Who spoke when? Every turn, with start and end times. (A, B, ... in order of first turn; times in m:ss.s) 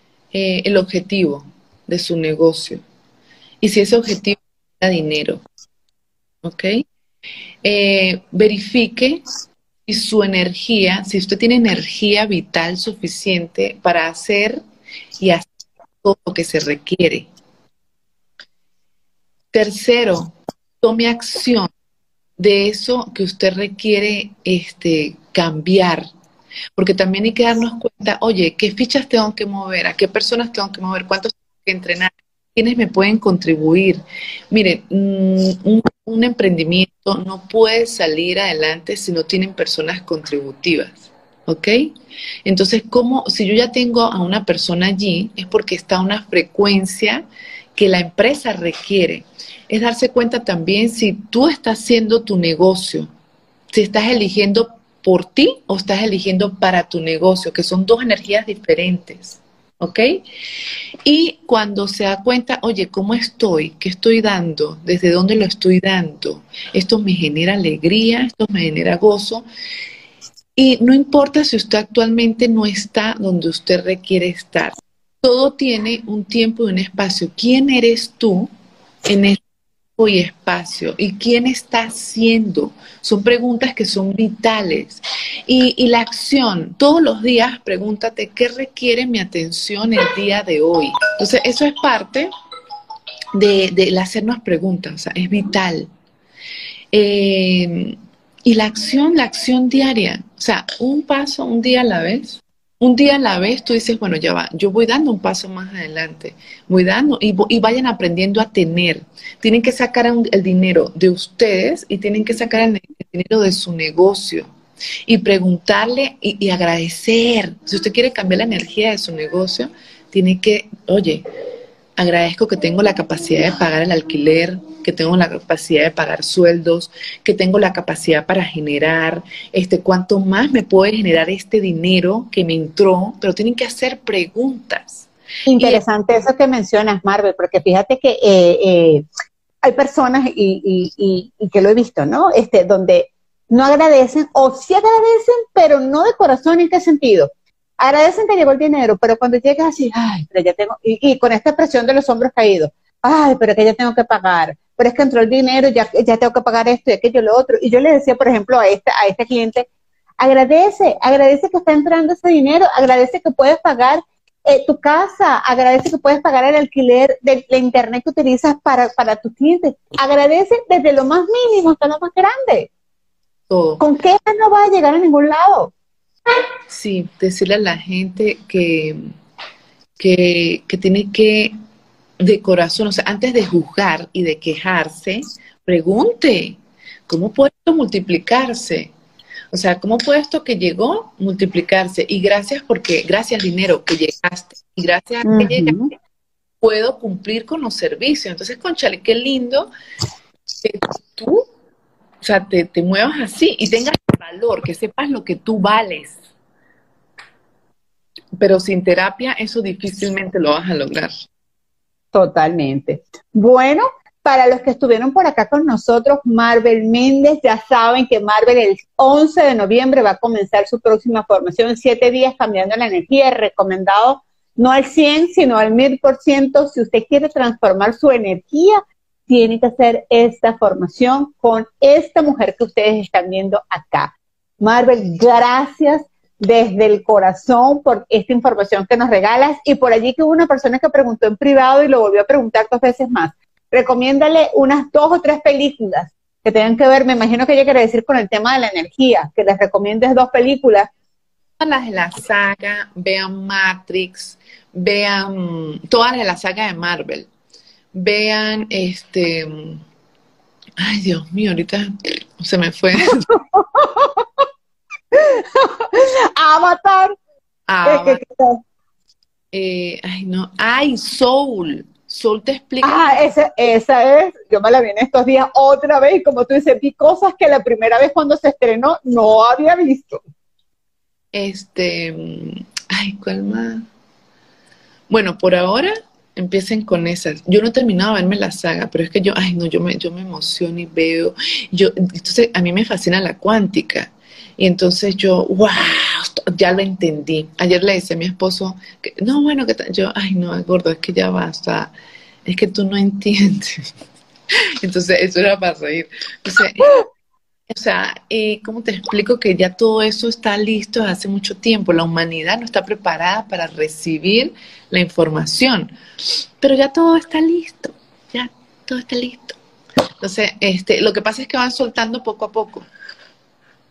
0:00.3-0:02.8 A
0:03.6-0:05.4 A
0:06.4-0:06.8 A
0:07.6-0:09.2 A
0:09.9-0:14.6 A
0:15.2-0:15.5 A
0:16.0-0:17.3 A
0:19.5-0:21.7 A
0:22.4-0:26.1 A
0:26.8-0:41.9 A
0:42.4-0:47.2 A
0:47.8-0:53.1 A
0:53.7-1:00.2 A
1:01.0-1:09.4 A
1:10.6-1:18.5 A
1:19.0-1:19.4 A
1:20.0-1:32.3 A
1:33.3-1:35.9 A
1:36.9-1:54.5 A
1:55.1-2:01.2 A
2:02.0-2:15.8 A
2:15.5-2:19.0 B
2:19.6-2:39.7 B
2:40.2-2:52.7 B
2:53.5-2:53.8 A
2:53.8-2:55.7 B
2:56.7-2:59.1 A
3:00.0-3:01.5 A
3:02.2-3:06.6 A
3:07.1-3:08.9 A
3:09.5-3:15.8 A
3:15.2-3:15.9 B
3:16.6-3:19.7 A
3:20.6-3:21.4 A
3:22.2-3:26.2 A
3:28.4-3:31.1 A
3:32.1-4:10.9 B
4:11.6-4:17.3 A
4:17.9-4:19.8 A
4:20.8-4:23.3 A
4:23.1-4:24.4 B
4:25.1-4:27.2 B
4:27.7-4:28.2 A
4:27.8-4:28.6 B
4:29.5-4:33.2 A
4:32.8-4:40.2 B
4:41.3-4:43.9 A
4:45.1-5:01.9 A
5:02.4-5:03.9 A
5:04.8-5:07.0 A
5:07.7-5:15.9 A
5:16.6-5:19.6 A
5:20.2-5:22.9 A